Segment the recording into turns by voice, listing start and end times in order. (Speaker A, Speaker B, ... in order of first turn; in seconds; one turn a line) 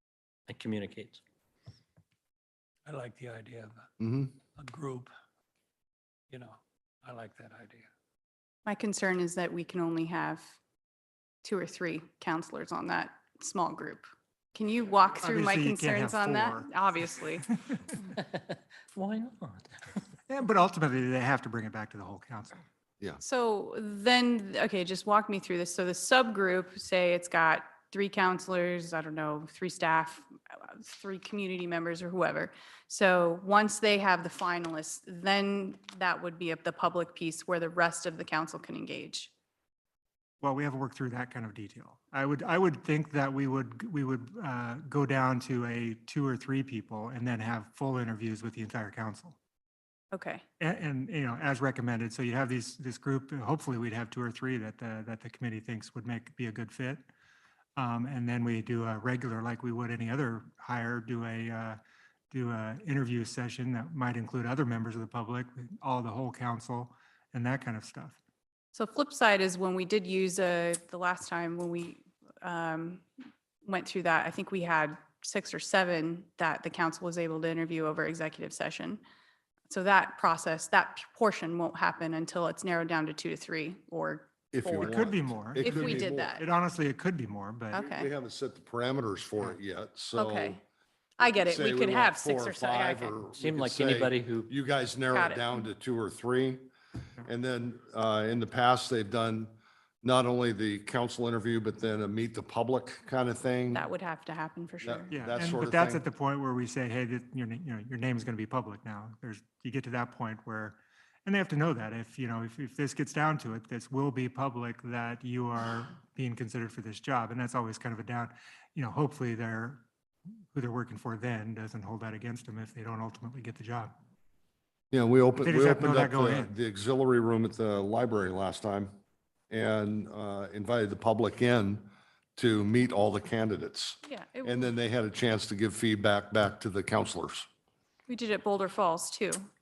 Speaker A: 0.5-1.2
Speaker B: 2.9-3.9
Speaker C: 4.0-4.3
Speaker B: 4.6-5.1
Speaker B: 6.3-7.9
Speaker D: 8.7-10.6
Speaker D: 11.4-17.5
Speaker E: 15.2-16.7
Speaker A: 18.9-19.6
Speaker E: 20.3-22.6
Speaker D: 23.2-39.3
Speaker E: 40.4-49.4
Speaker D: 50.1-50.4
Speaker E: 50.6-57.0
Speaker E: 57.8-61.8
Speaker E: 62.3-68.2
Speaker D: 68.7-73.0
Speaker D: 73.6-79.0
Speaker D: 79.7-85.0
Speaker C: 84.5-86.3
Speaker E: 84.7-87.8
Speaker D: 85.6-86.5
Speaker D: 87.7-88.1
Speaker C: 87.7-90.6
Speaker D: 90.2-90.6
Speaker D: 91.2-93.2
Speaker C: 91.2-96.7
Speaker A: 93.3-94.5
Speaker D: 95.1-95.7
Speaker C: 97.2-103.8
Speaker D: 103.7-105.1
Speaker C: 104.8-106.0
Speaker E: 105.1-119.8
Speaker E: 120.5-123.9
Speaker C: 124.9-128.9
Speaker E: 125.4-126.5
Speaker C: 129.5-137.5
Speaker D: 134.0-134.7
Speaker D: 138.1-139.5